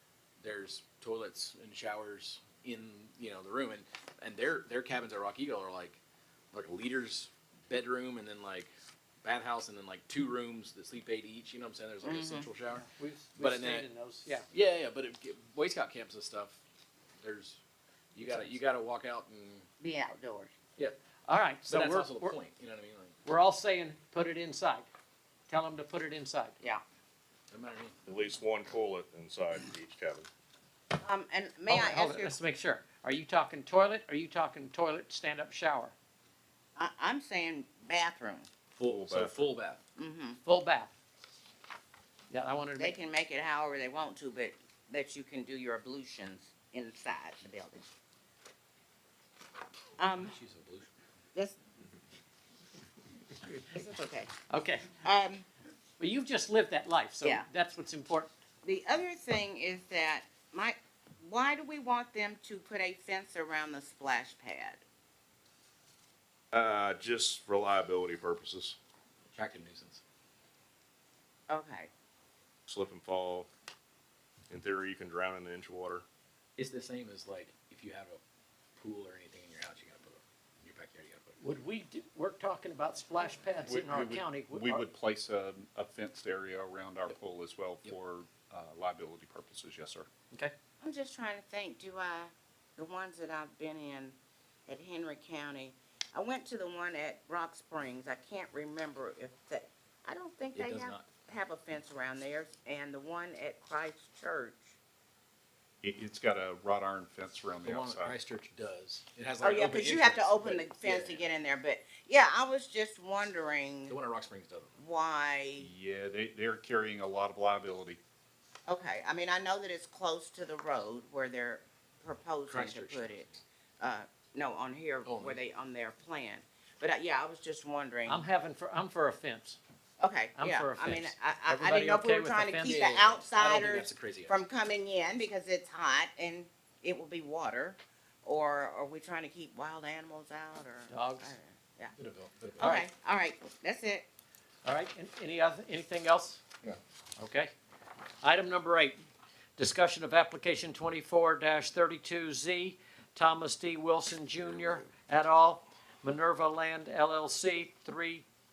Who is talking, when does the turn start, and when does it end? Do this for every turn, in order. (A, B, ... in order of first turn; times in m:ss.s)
0:00.4-0:06.0 A
0:06.5-0:08.7 A
0:09.2-0:12.9 A
0:12.0-0:12.5 B
0:13.0-0:14.5 C
0:13.4-0:13.9 A
0:14.5-0:16.6 A
0:17.2-0:17.6 A
0:18.1-0:19.7 A
0:19.8-0:20.5 B
0:21.3-0:22.4 C
0:21.7-0:23.2 A
0:23.2-0:24.9 C
0:25.5-0:26.6 C
0:27.5-0:28.0 A
0:28.1-0:30.3 D
0:31.0-0:32.4 B
0:31.7-0:35.9 C
0:36.8-0:38.5 B
0:38.8-0:39.8 A
0:38.9-0:39.4 D
0:40.0-0:40.4 B
0:40.4-0:40.9 C
0:42.3-0:43.0 C
0:42.8-0:47.9 B
0:50.0-0:50.4 B
0:50.2-0:50.9 A
0:53.7-0:54.3 B
0:54.5-0:54.9 C
0:55.0-0:55.5 B
0:56.0-0:58.3 C
0:58.6-1:04.8 B
1:06.5-1:08.8 D
1:09.3-1:10.0 A
1:11.5-1:11.9 B
1:12.7-1:13.5 D
1:14.5-1:16.0 D
1:16.6-1:18.2 A
1:18.8-1:21.4 A
1:21.4-1:24.8 C
1:23.7-1:30.1 E
1:30.8-1:34.2 B
1:34.7-1:44.7 B
1:40.5-1:41.1 A
1:45.8-1:48.2 E
1:47.6-1:51.2 A
1:49.4-1:54.0 B
1:53.9-1:54.7 A
1:54.8-1:55.7 B
1:55.6-1:58.0 E
1:58.7-2:03.3 B
2:02.5-2:03.4 A
2:03.8-2:08.2 B
2:05.0-2:05.4 A
2:08.1-2:09.6 C
2:10.0-2:21.9 B
2:10.4-2:13.2 C
2:13.4-2:14.4 A
2:20.9-2:21.3 C
2:22.0-2:22.8 A
2:22.6-2:24.1 B
2:24.6-2:26.4 C
2:27.2-2:27.5 C
2:28.2-2:29.0 C
2:29.6-2:38.2 C